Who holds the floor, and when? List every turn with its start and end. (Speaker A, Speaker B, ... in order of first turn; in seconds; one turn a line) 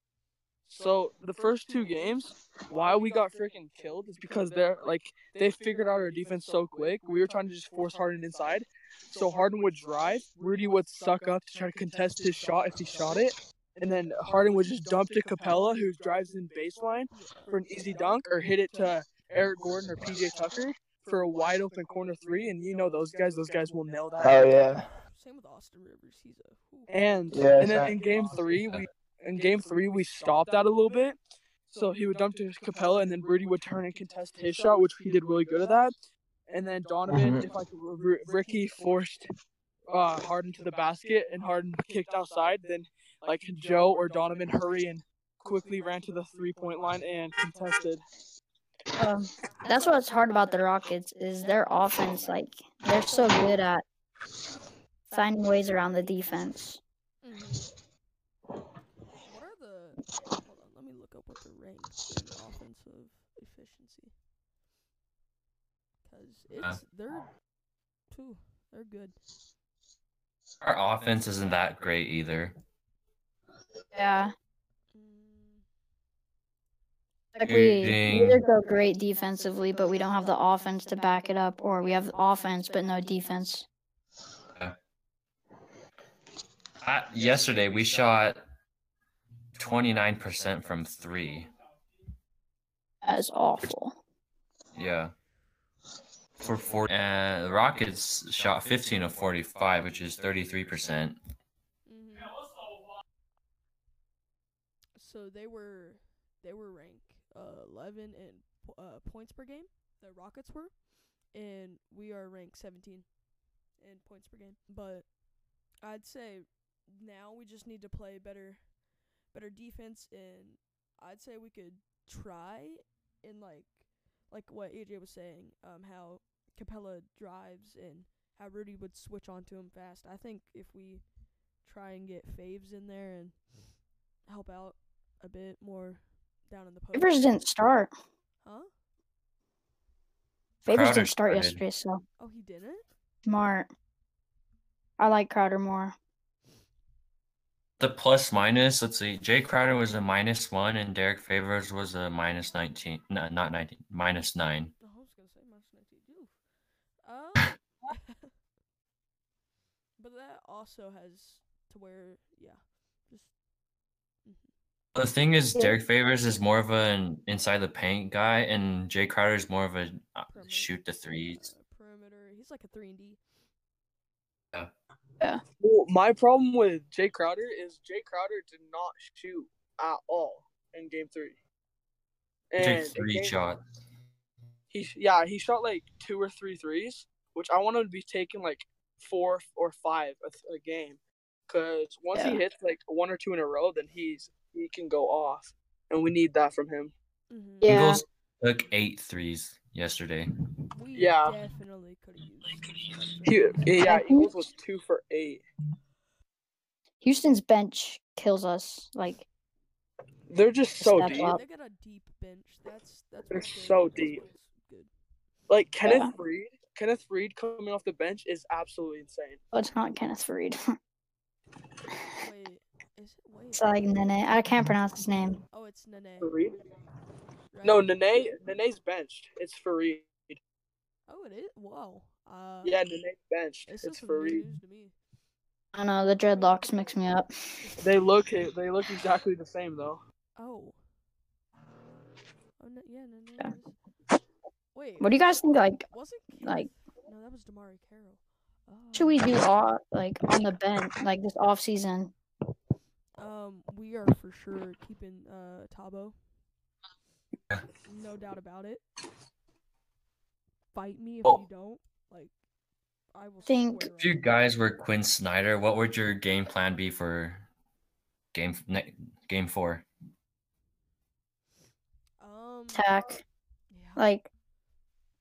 Speaker A: 0.7-24.5
Speaker B: 17.1-17.6
Speaker C: 24.2-24.9
Speaker B: 24.9-26.9
Speaker A: 26.9-31.2
Speaker C: 27.3-28.0
Speaker A: 31.7-35.9
Speaker A: 36.5-39.3
Speaker C: 37.1-37.6
Speaker A: 39.9-48.0
Speaker D: 49.0-53.8
Speaker D: 55.1-56.8
Speaker B: 57.2-57.7
Speaker B: 59.2-64.1
Speaker B: 66.0-67.4
Speaker B: 68.1-69.2
Speaker E: 70.6-72.5
Speaker D: 73.9-74.3
Speaker B: 74.9-75.6
Speaker D: 77.3-83.7
Speaker E: 77.4-78.4
Speaker E: 86.8-88.4
Speaker E: 89.5-91.5
Speaker D: 93.0-94.0
Speaker E: 94.7-95.1
Speaker E: 96.4-101.2
Speaker B: 101.8-102.4
Speaker B: 105.0-113.1
Speaker B: 113.8-115.2
Speaker B: 115.8-131.1
Speaker B: 131.6-133.5
Speaker B: 134.2-137.4
Speaker D: 136.9-137.9
Speaker B: 138.4-138.7
Speaker D: 140.6-142.0
Speaker E: 140.7-141.6
Speaker B: 142.2-142.8
Speaker D: 143.2-143.7
Speaker D: 145.0-145.9
Speaker E: 147.8-154.7
Speaker B: 154.8-156.4
Speaker B: 157.0-158.3
Speaker B: 160.0-163.3
Speaker B: 164.2-164.5
Speaker E: 164.9-171.4
Speaker B: 170.3-173.2
Speaker A: 175.6-181.4
Speaker A: 182.5-183.3
Speaker E: 182.6-183.6
Speaker A: 184.7-196.9
Speaker D: 192.1-192.4
Speaker B: 197.3-197.8
Speaker D: 197.6-198.0
Speaker E: 197.7-200.3
Speaker B: 200.7-203.6
Speaker A: 200.9-201.4
Speaker A: 203.2-205.4
Speaker D: 203.7-204.4
Speaker D: 207.0-209.2
Speaker A: 210.3-211.3
Speaker D: 210.8-211.4
Speaker B: 211.1-214.9
Speaker A: 213.3-214.2
Speaker A: 215.5-219.4
Speaker D: 215.8-216.1
Speaker D: 219.5-220.6
Speaker B: 222.1-224.0
Speaker D: 223.5-225.4
Speaker B: 225.5-226.3
Speaker A: 226.2-226.6
Speaker B: 227.5-228.4
Speaker A: 227.6-230.4
Speaker B: 231.1-232.8
Speaker A: 232.6-234.4
Speaker B: 233.7-234.9
Speaker D: 235.7-237.3
Speaker B: 236.2-237.9
Speaker A: 237.8-240.0
Speaker B: 240.3-240.8
Speaker B: 242.6-243.7
Speaker B: 244.7-249.4
Speaker D: 245.0-245.8
Speaker D: 246.4-246.7
Speaker D: 248.9-252.1
Speaker B: 253.2-256.2
Speaker B: 257.9-258.8
Speaker B: 260.7-262.3
Speaker B: 263.1-264.4
Speaker D: 263.5-263.9
Speaker E: 264.0-267.4
Speaker E: 268.3-269.8
Speaker B: 272.2-272.9
Speaker D: 272.7-273.2
Speaker B: 273.7-274.1
Speaker D: 274.0-274.2